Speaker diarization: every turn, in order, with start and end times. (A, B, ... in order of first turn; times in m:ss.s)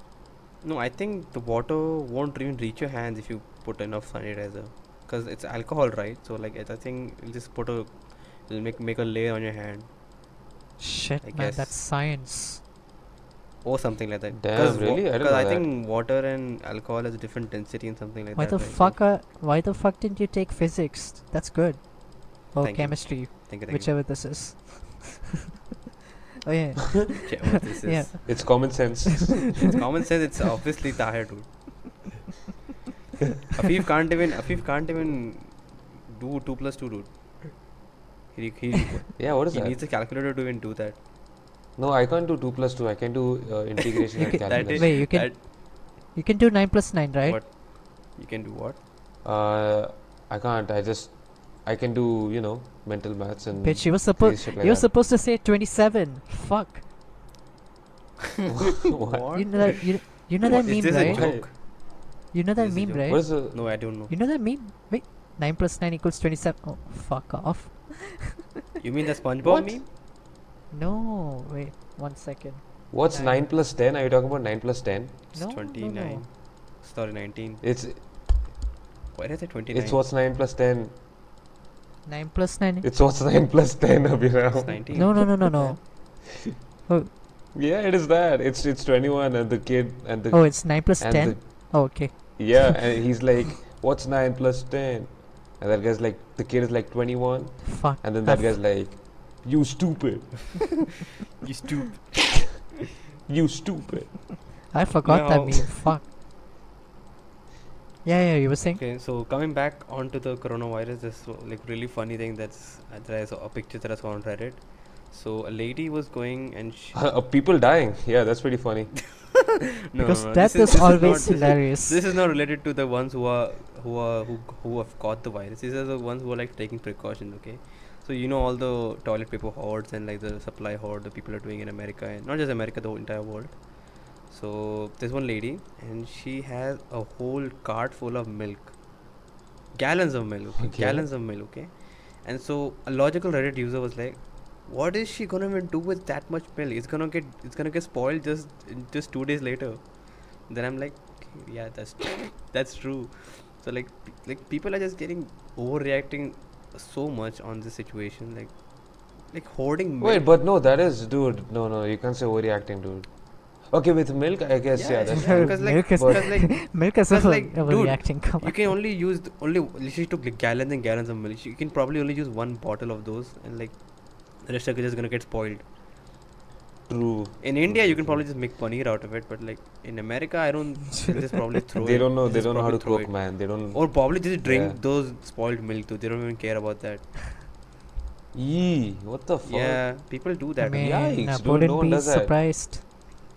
0:00.6-0:09.9 A
0:10.8-0:12.6 B
0:11.2-0:11.8 A
0:13.6-0:19.0 A
0:14.4-0:15.7 C
0:18.4-0:25.2 B
0:22.6-0:24.0 A
0:26.4-0:27.3 B
0:27.2-0:28.5 A
0:27.8-0:29.0 B
0:28.2-0:29.7 C
0:29.7-0:32.0 A
0:33.5-0:37.8 A
0:38.3-0:41.0 A
0:39.2-0:39.8 C
0:41.8-0:44.9 C
0:44.2-0:45.4 A
0:44.2-0:47.4 B
0:47.2-0:48.8 A
0:49.2-0:54.9 C
0:53.6-0:56.8 B
0:58.8-0:59.5 C
0:59.0-1:01.6 A
0:59.3-1:01.6 B
1:00.4-1:01.5 C
1:02.3-1:08.3 B
1:02.6-1:04.1 A
1:03.1-1:03.6 C
1:08.8-1:09.9 A
1:09.4-1:09.8 C
1:10.7-1:13.4 B
1:12.9-1:15.3 C
1:15.3-1:17.6 A
1:15.3-1:16.2 B
1:17.6-1:18.4 C
1:19.1-1:20.0 A
1:19.7-1:20.9 C
1:22.1-1:22.9 B
1:22.8-1:25.3 C
1:24.6-1:25.8 A
1:24.9-1:26.2 B
1:27.5-1:40.9 C
1:30.3-1:32.9 B
1:37.6-1:38.6 B
1:41.4-1:42.6 A
1:43.3-1:44.3 C
1:44.7-1:46.0 B
1:45.0-1:45.9 A
1:48.0-1:48.8 B
1:48.8-1:57.0 A
1:56.9-1:59.0 C
1:59.9-2:18.8 A
2:00.0-2:02.0 B
2:19.8-2:40.3 A
2:20.6-2:21.1 C
2:40.0-2:46.2 C
2:44.7-2:55.7 A
2:45.1-2:48.6 B
2:56.9-2:58.3 C
2:57.4-3:07.2 A
3:01.8-3:04.8 C
3:08.3-3:09.9 C
3:09.4-3:11.0 A
3:10.6-3:12.8 B
3:10.7-3:12.4 C